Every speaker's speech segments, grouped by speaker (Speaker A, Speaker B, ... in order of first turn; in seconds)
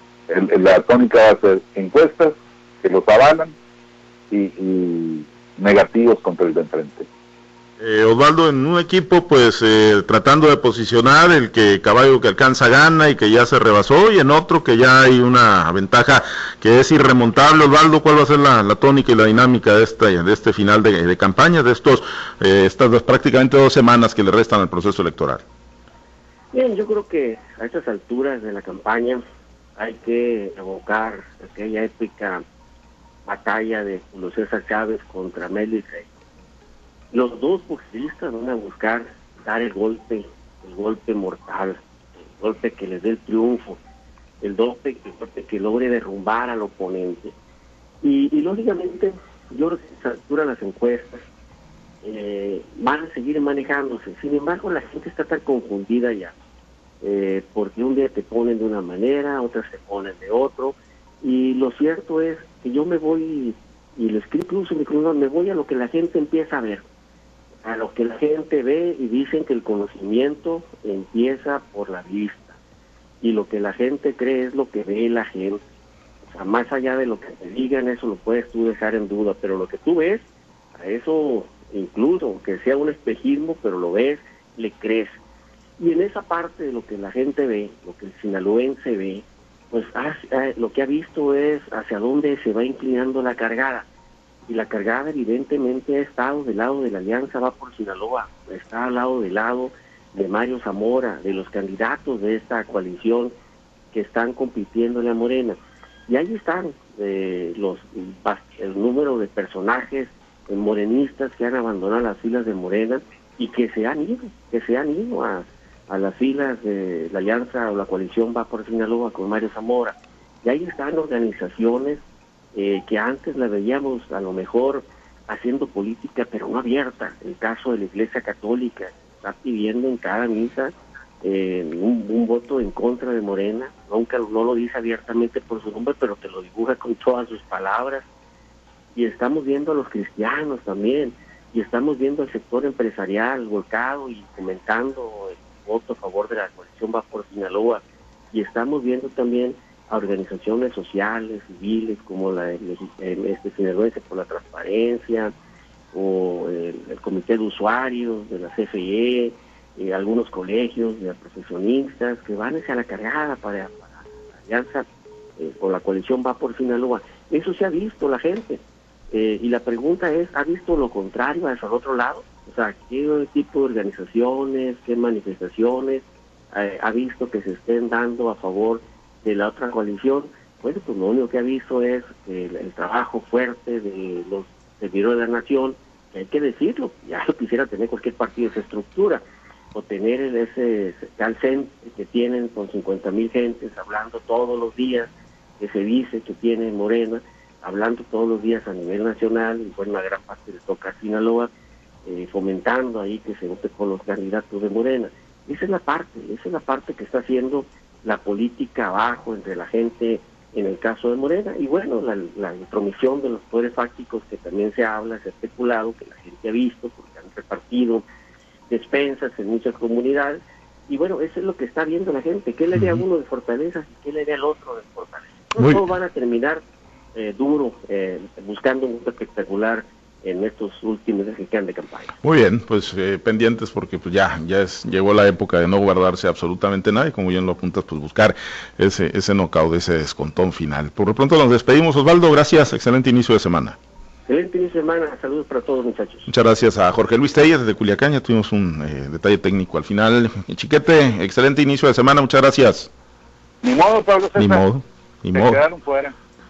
Speaker A: 0.3-3.5, 4.3-7.1, 253.6-254.6, 255.3-256.1
Speaker B: 7.8-25.4, 222.8-223.0, 225.6-225.8, 232.2-243.8, 246.3-252.9, 254.4-255.6
Speaker C: 26.5-29.2, 29.8-32.4, 33.3-36.1, 37.1-41.8, 42.4-43.8, 44.4-47.3, 48.0-51.2, 52.0-56.3, 57.0-66.8, 67.6-72.5, 73.2-75.6, 76.3-80.2, 80.8-85.2, 85.8-93.9, 94.5-103.3, 103.9-122.0, 122.5-138.1, 138.9-155.3, 155.9-164.9, 165.4-189.2, 189.7-201.5, 202.1-218.0, 218.7-226.6, 227.1-232.2, 244.3-246.3